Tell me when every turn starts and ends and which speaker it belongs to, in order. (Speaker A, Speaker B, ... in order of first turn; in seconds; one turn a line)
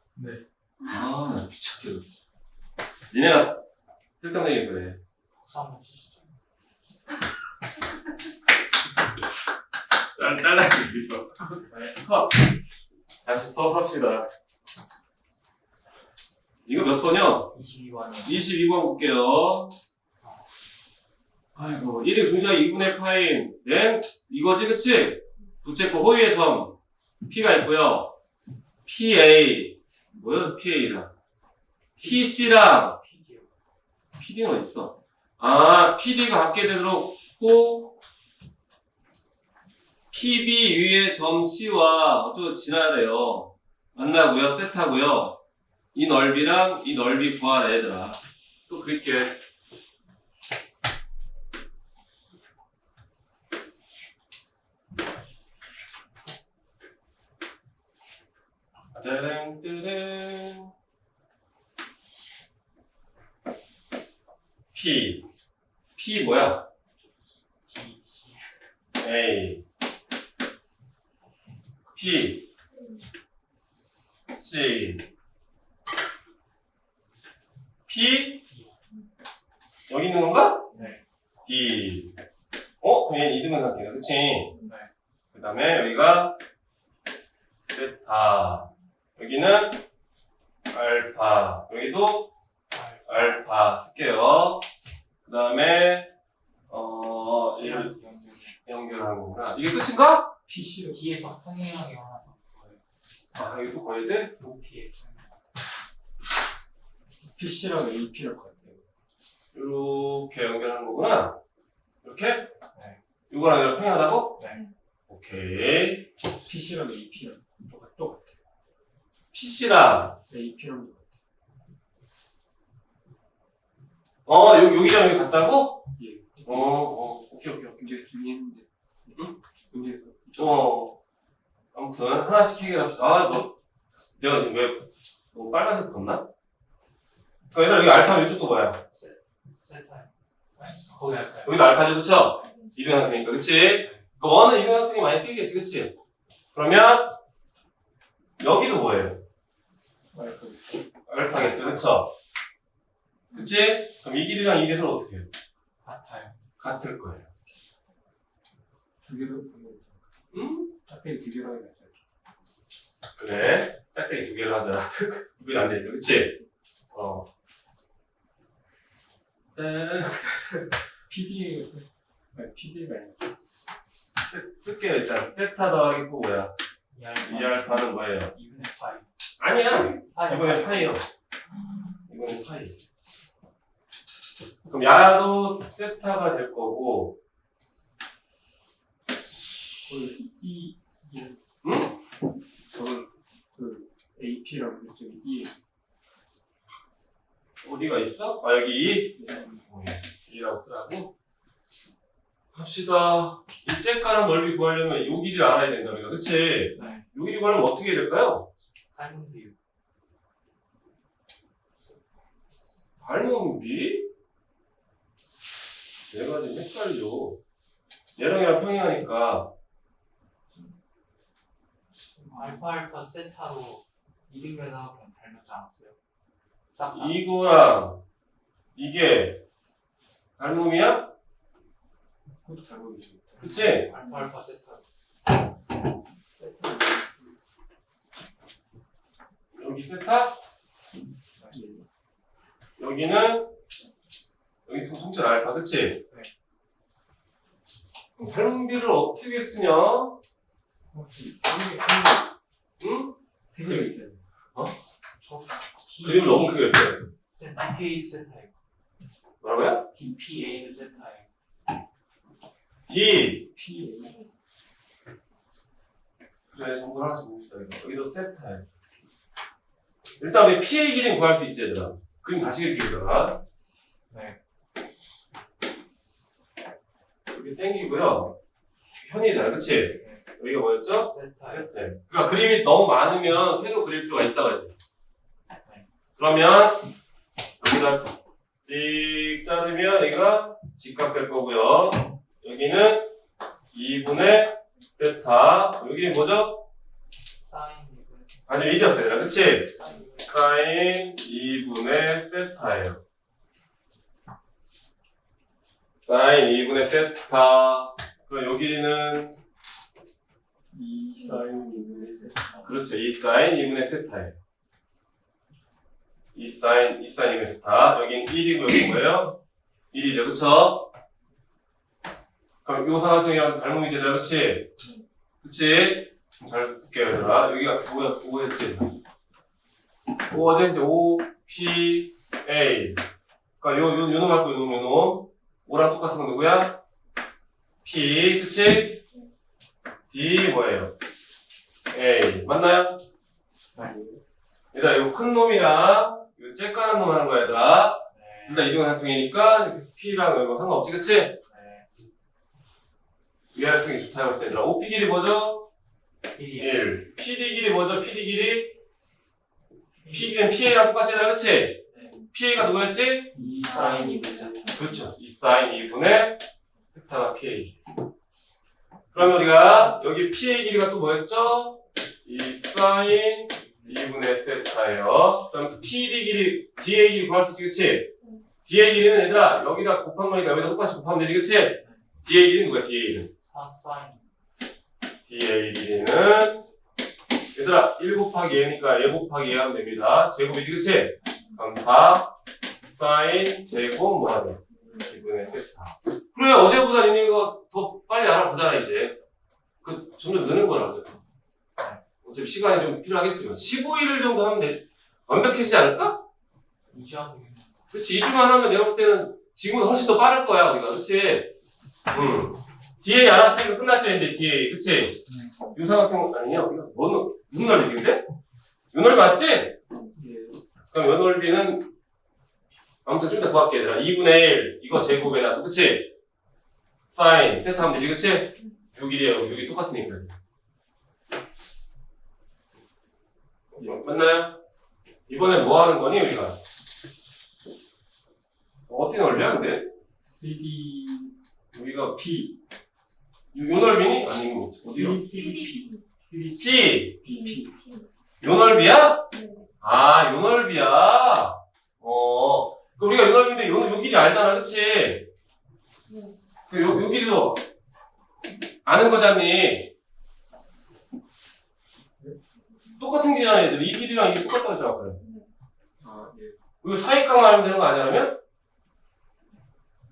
Speaker A: 0.2-0.4
Speaker B: 0.8-2.0
Speaker B: 3.1-3.6
Speaker B: 4.2-5.0
Speaker C: 5.4-6.3
Speaker B: 10.2-12.5
Speaker B: 13.2-14.3
Speaker B: 16.7-17.5
Speaker C: 17.5-18.4
Speaker B: 18.2-19.8
Speaker B: 21.6-26.8
Speaker B: 27.3-28.1
Speaker B: 28.9-31.1
Speaker B: 32.0-33.0
Speaker C: 32.0-33.5
Speaker B: 34.2-38.0
Speaker B: 40.1-45.4
Speaker B: 45.9-49.4
Speaker B: 58.9-60.7
Speaker B: 64.7-65.3
Speaker B: 66.0-66.7
Speaker C: 67.7-68.4
Speaker B: 69.0-69.6
Speaker B: 71.9-72.5
Speaker D: 72.6-73.1
Speaker B: 74.3-75.1
Speaker B: 77.9-78.5
Speaker B: 79.9-80.7
Speaker C: 80.7-81.0
Speaker B: 81.5-82.2
Speaker B: 82.8-84.6
Speaker B: 85.3-86.4
Speaker B: 87.7-89.8
Speaker B: 90.7-92.3
Speaker C: 92.7-93.4
Speaker B: 93.1-94.7
Speaker B: 95.3-96.1
Speaker B: 96.7-98.0
Speaker C: 97.5-98.6
Speaker B: 98.6-100.3
Speaker A: 100.5-101.1
Speaker C: 100.9-102.8
Speaker B: 103.3-104.4
Speaker C: 104.4-105.3
Speaker A: 107.3-108.8
Speaker B: 109.5-111.4
Speaker B: 112.0-112.5
Speaker B: 113.3-114.4
Speaker B: 115.1-116.1
Speaker A: 116.5-118.4
Speaker B: 119.3-120.2
Speaker A: 120.3-121.2
Speaker B: 124.3-125.8
Speaker A: 126.0-130.7
Speaker B: 126.5-127.7
Speaker B: 130.4-131.0
Speaker B: 131.7-133.6
Speaker B: 134.2-136.2
Speaker B: 137.5-138.8
Speaker C: 138.9-141.6
Speaker B: 141.4-145.9
Speaker B: 146.5-147.2
Speaker B: 148.4-149.2
Speaker A: 150.1-150.8
Speaker B: 151.1-152.1
Speaker B: 153.3-155.3
Speaker C: 155.8-156.4
Speaker B: 156.6-157.3
Speaker A: 159.0-160.0
Speaker B: 160.3-160.7
Speaker A: 160.9-162.0
Speaker B: 163.2-166.4
Speaker B: 166.9-167.3
Speaker B: 169.6-170.7
Speaker A: 171.1-173.3
Speaker B: 174.3-176.5
Speaker C: 176.9-179.1
Speaker B: 177.2-178.3
Speaker B: 179.4-181.0
Speaker C: 180.1-180.9
Speaker B: 182.1-182.8
Speaker B: 184.7-187.2
Speaker A: 189.9-191.4
Speaker B: 191.6-191.9
Speaker A: 192.8-195.5
Speaker B: 197.6-201.1
Speaker A: 199.2-199.6
Speaker B: 202.5-208.5
Speaker C: 206.7-207.1
Speaker C: 208.9-209.6
Speaker B: 213.0-214.1
Speaker B: 216.1-217.4
Speaker B: 218.2-219.5
Speaker A: 222.2-222.6
Speaker C: 222.2-226.0
Speaker C: 226.7-227.2
Speaker B: 226.9-228.0
Speaker B: 228.8-229.4
Speaker B: 230.4-231.1
Speaker A: 232.4-233.6
Speaker B: 233.4-233.9
Speaker C: 233.4-234.8
Speaker A: 236.4-237.4
Speaker B: 239.6-240.3
Speaker A: 241.5-241.9
Speaker B: 242.8-243.5
Speaker B: 244.7-246.0
Speaker B: 248.2-250.2
Speaker A: 250.9-252.3
Speaker B: 252.8-253.9
Speaker A: 253.5-254.2
Speaker C: 255.2-256.7
Speaker B: 256.0-257.1
Speaker C: 257.4-258.5
Speaker B: 259.4-259.9
Speaker A: 259.9-260.4
Speaker C: 260.0-261.3
Speaker B: 262.9-263.5
Speaker A: 263.6-264.2
Speaker D: 263.8-264.3
Speaker B: 266.5-268.6
Speaker B: 270.2-273.4
Speaker C: 274.1-274.4
Speaker B: 277.3-278.4
Speaker B: 279.0-284.7
Speaker C: 281.0-281.7
Speaker B: 286.2-286.9
Speaker B: 287.6-288.1
Speaker B: 288.6-293.1
Speaker B: 293.7-296.6
Speaker C: 297.4-298.3
Speaker B: 298.5-303.0
Speaker C: 299.8-300.3
Speaker B: 306.0-309.4
Speaker A: 310.7-312.6
Speaker D: 311.2-312.4
Speaker B: 312.6-314.4
Speaker B: 316.3-319.4
Speaker B: 319.9-320.9
Speaker B: 322.6-324.7
Speaker B: 325.4-328.9
Speaker B: 330.3-333.0
Speaker B: 333.6-336.8
Speaker B: 337.8-339.0
Speaker B: 340.1-340.9
Speaker B: 341.9-343.0
Speaker A: 343.8-344.2
Speaker B: 344.7-351.4
Speaker C: 348.1-348.7
Speaker C: 351.5-351.9
Speaker B: 353.5-355.7
Speaker C: 356.4-356.9
Speaker B: 356.6-358.8
Speaker C: 360.0-360.4
Speaker B: 360.1-364.1
Speaker C: 361.9-362.2
Speaker A: 363.3-364.5
Speaker C: 363.4-364.7
Speaker D: 363.6-364.9
Speaker B: 364.7-367.8
Speaker B: 369.1-378.1
Speaker C: 373.7-374.0
Speaker B: 378.6-383.3
Speaker C: 381.8-382.1
Speaker C: 383.4-384.3
Speaker B: 385.3-386.6
Speaker B: 387.5-392.3
Speaker B: 392.9-399.2
Speaker D: 394.7-395.1
Speaker B: 399.8-401.1
Speaker B: 402.2-406.2
Speaker C: 406.9-407.8
Speaker B: 407.9-411.5
Speaker B: 412.1-415.2
Speaker C: 415.3-415.6
Speaker B: 415.7-418.2
Speaker B: 418.9-419.8
Speaker A: 420.1-420.6
Speaker B: 420.9-421.9
Speaker B: 423.1-426.1
Speaker B: 427.1-430.4
Speaker B: 433.7-434.6
Speaker A: 433.8-434.1
Speaker B: 435.3-436.6
Speaker B: 438.9-439.9
Speaker A: 440.2-441.4
Speaker B: 441.7-442.2
Speaker A: 442.1-442.6
Speaker B: 443.5-445.2
Speaker A: 444.9-447.8
Speaker D: 445.3-446.0
Speaker B: 446.4-447.2
Speaker D: 447.2-448.1
Speaker B: 448.4-449.2
Speaker D: 449.3-449.7
Speaker B: 449.8-455.3
Speaker D: 456.1-456.4
Speaker B: 456.7-457.6
Speaker B: 458.9-459.9
Speaker B: 463.0-465.2
Speaker D: 465.2-465.5
Speaker A: 466.0-466.6
Speaker B: 466.8-468.4